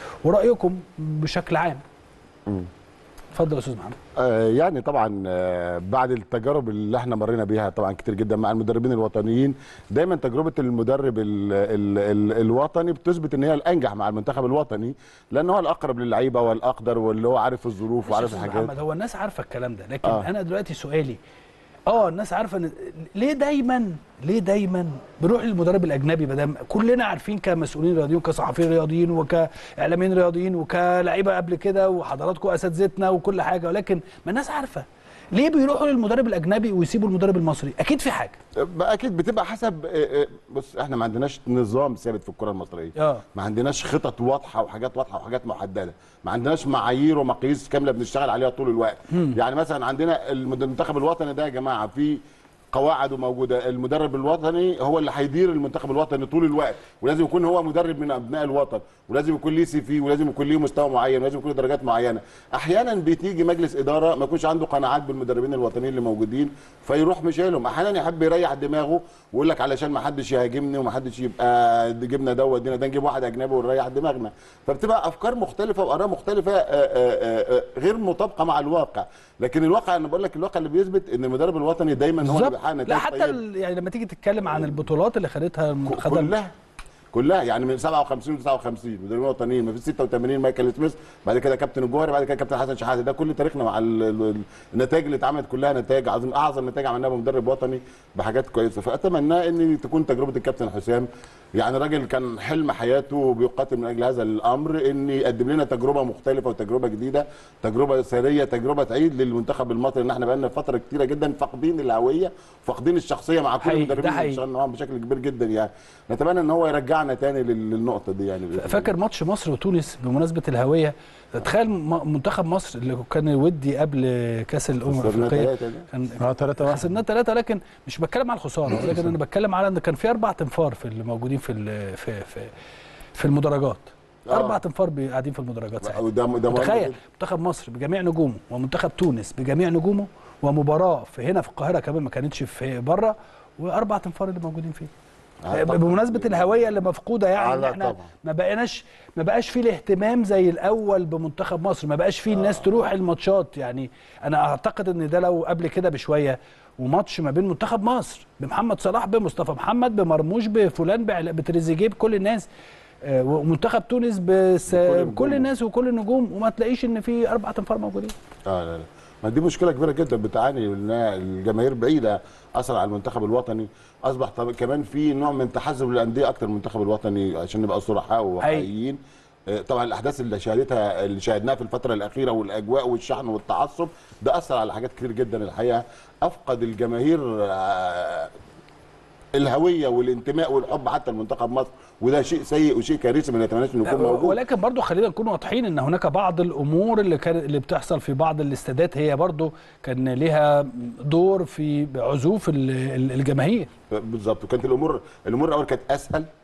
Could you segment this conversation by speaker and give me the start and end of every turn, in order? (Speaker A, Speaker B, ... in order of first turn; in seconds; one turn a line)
Speaker A: 0.2-1.8
Speaker A: 3.3-4.0
Speaker B: 4.2-18.7
Speaker A: 18.0-21.2
Speaker A: 21.9-38.4
Speaker B: 38.6-52.2
Speaker A: 43.0-43.2
Speaker A: 49.1-49.4
Speaker B: 52.7-83.4
Speaker A: 82.2-86.3
Speaker B: 84.5-84.9
Speaker B: 85.9-86.5
Speaker B: 87.1-101.1
Speaker B: 101.6-118.9
Speaker A: 113.6-114.4
Speaker A: 118.5-132.5
Speaker B: 124.8-125.9
Speaker A: 133.2-144.9
Speaker B: 134.3-134.6
Speaker B: 135.8-137.0
Speaker B: 145.4-146.6
Speaker A: 145.5-162.5
Speaker B: 147.3-148.1
Speaker B: 152.3-152.8
Speaker A: 163.0-168.2
Speaker B: 164.7-165.5
Speaker B: 168.5-179.0
Speaker A: 178.4-178.7
Speaker B: 179.5-188.3
Speaker B: 189.3-194.4
Speaker A: 193.8-203.7
Speaker B: 203.9-206.3